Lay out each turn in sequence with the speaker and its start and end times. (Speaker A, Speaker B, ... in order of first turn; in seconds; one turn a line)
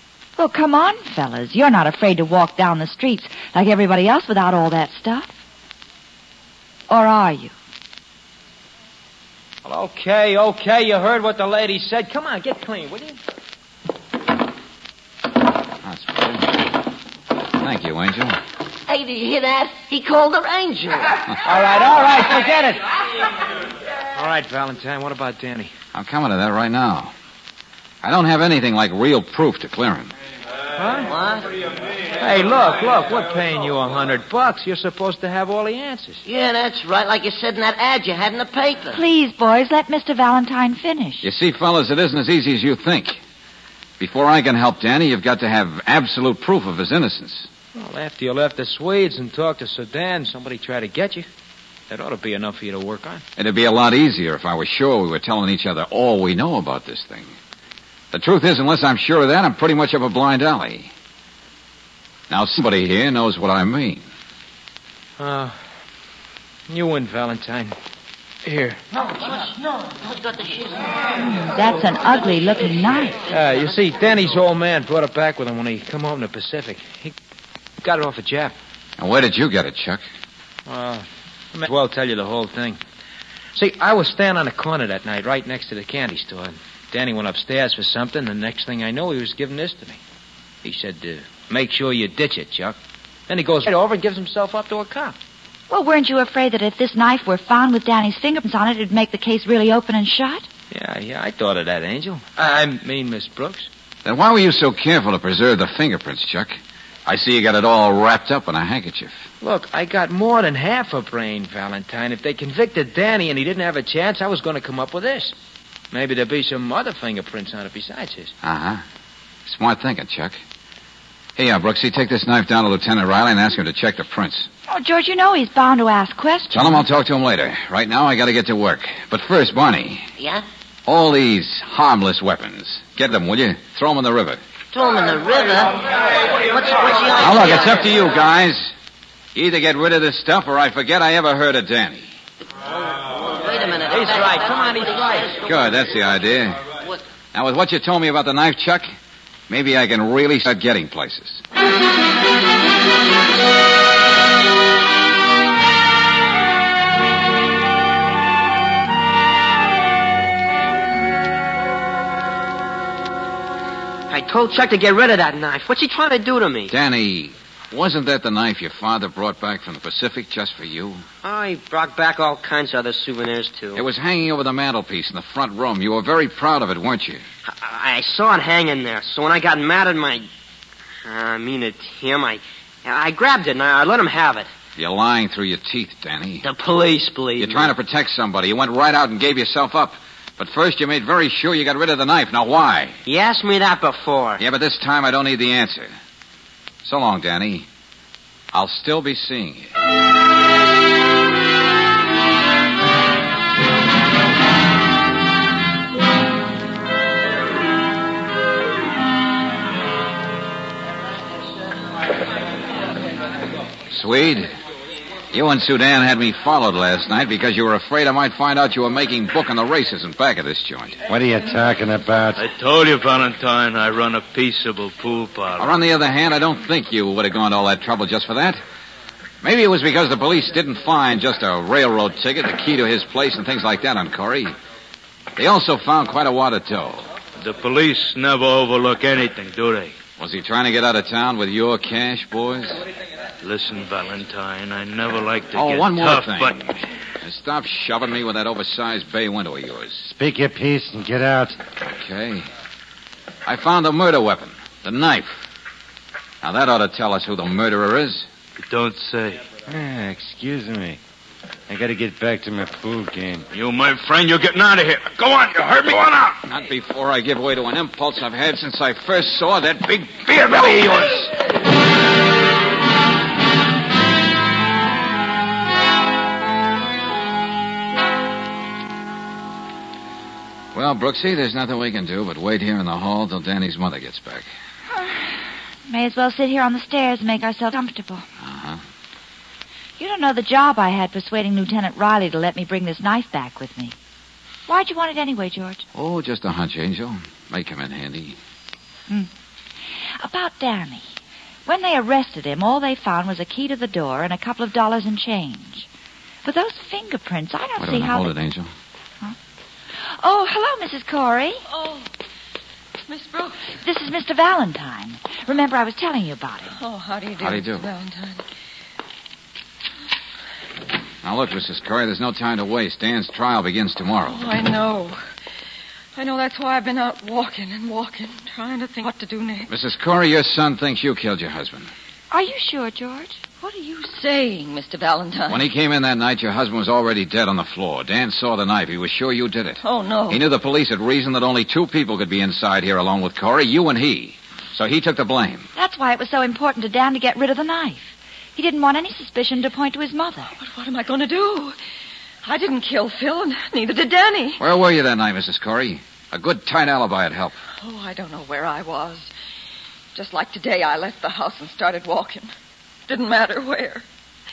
Speaker A: 0.4-5.3
Speaker A: 6.9-7.5
Speaker B: 9.6-13.2
Speaker C: 15.8-16.7
Speaker C: 17.6-18.4
Speaker D: 18.9-21.1
Speaker B: 21.4-22.8
Speaker B: 24.1-25.7
Speaker C: 25.9-27.1
Speaker C: 28.0-30.1
Speaker B: 30.8-31.1
Speaker D: 31.1-31.5
Speaker B: 32.2-36.2
Speaker D: 36.2-39.0
Speaker A: 38.9-41.3
Speaker C: 41.2-43.2
Speaker C: 44.0-47.5
Speaker B: 47.7-51.2
Speaker B: 51.9-53.2
Speaker C: 53.4-57.3
Speaker C: 58.1-60.9
Speaker C: 62.3-64.1
Speaker B: 65.2-65.5
Speaker B: 66.7-67.7
Speaker B: 68.4-68.8
Speaker D: 70.1-70.8
Speaker A: 71.2-73.2
Speaker B: 73.3-77.1
Speaker B: 77.8-78.5
Speaker C: 79.0-80.0
Speaker B: 80.7-82.8
Speaker B: 83.5-90.0
Speaker B: 90.6-92.8
Speaker B: 93.3-95.2
Speaker A: 95.7-100.5
Speaker B: 100.7-103.7
Speaker C: 104.0-109.3
Speaker B: 109.4-115.3
Speaker B: 115.9-118.3
Speaker C: 118.4-118.8
Speaker C: 119.5-120.4
Speaker C: 121.4-124.5
Speaker A: 124.7-126.8
Speaker C: 126.5-130.1
Speaker D: 130.2-130.4
Speaker C: 130.8-134.4
Speaker D: 134.7-137.8
Speaker C: 137.2-138.7
Speaker C: 139.3-142.2
Speaker D: 143.3-145.5
Speaker B: 143.9-145.4
Speaker C: 145.4-146.6
Speaker C: 147.3-149.0
Speaker C: 149.5-151.4
Speaker E: 164.1-166.7
Speaker C: 166.7-171.0
Speaker E: 171.2-173.8
Speaker C: 173.7-177.2
Speaker E: 177.5-180.2
Speaker E: 181.0-184.5
Speaker C: 184.8-186.4
Speaker E: 186.4-187.7
Speaker C: 187.4-193.0
Speaker E: 193.1-194.4
Speaker C: 194.4-195.9
Speaker C: 196.8-197.7
Speaker C: 198.5-199.7
Speaker C: 213.9-214.5
Speaker C: 215.3-221.0
Speaker F: 221.1-222.4
Speaker G: 222.4-225.7
Speaker C: 225.6-228.6
Speaker C: 229.4-234.5
Speaker C: 235.3-237.1
Speaker G: 237.4-239.9
Speaker C: 240.2-242.8
Speaker G: 243.4-246.6
Speaker C: 245.5-250.1
Speaker F: 250.0-251.6
Speaker C: 251.8-252.5
Speaker C: 253.4-255.4
Speaker C: 256.4-258.3
Speaker G: 258.6-259.4
Speaker F: 259.7-261.0
Speaker F: 261.7-263.5
Speaker G: 263.5-266.4
Speaker C: 266.4-271.3
Speaker C: 280.7-284.5
Speaker A: 284.9-288.3
Speaker C: 288.4-288.8
Speaker A: 290.0-293.9
Speaker A: 294.7-295.8
Speaker C: 295.9-298.4
Speaker A: 299.9-301.1
Speaker A: 301.6-305.9
Speaker A: 306.4-308.3
Speaker C: 307.8-308.7
Speaker A: 310.0-311.6
Speaker H: 311.7-312.1
Speaker H: 313.1-313.6
Speaker A: 313.8-316.8
Speaker H: 316.8-318.4
Speaker C: 317.4-317.9
Speaker C: 321.2-324.5
Speaker H: 324.2-325.2
Speaker H: 326.1-329.7
Speaker C: 329.7-331.9
Speaker A: 332.3-333.4
Speaker H: 333.6-335.7
Speaker C: 335.5-345.7
Speaker H: 339.8-340.4
Speaker A: 345.8-350.5
Speaker H: 350.5-351.8
Speaker H: 352.4-354.6
Speaker C: 354.6-357.6
Speaker H: 357.8-359.3
Speaker H: 360.1-362.5
Speaker H: 363.1-364.1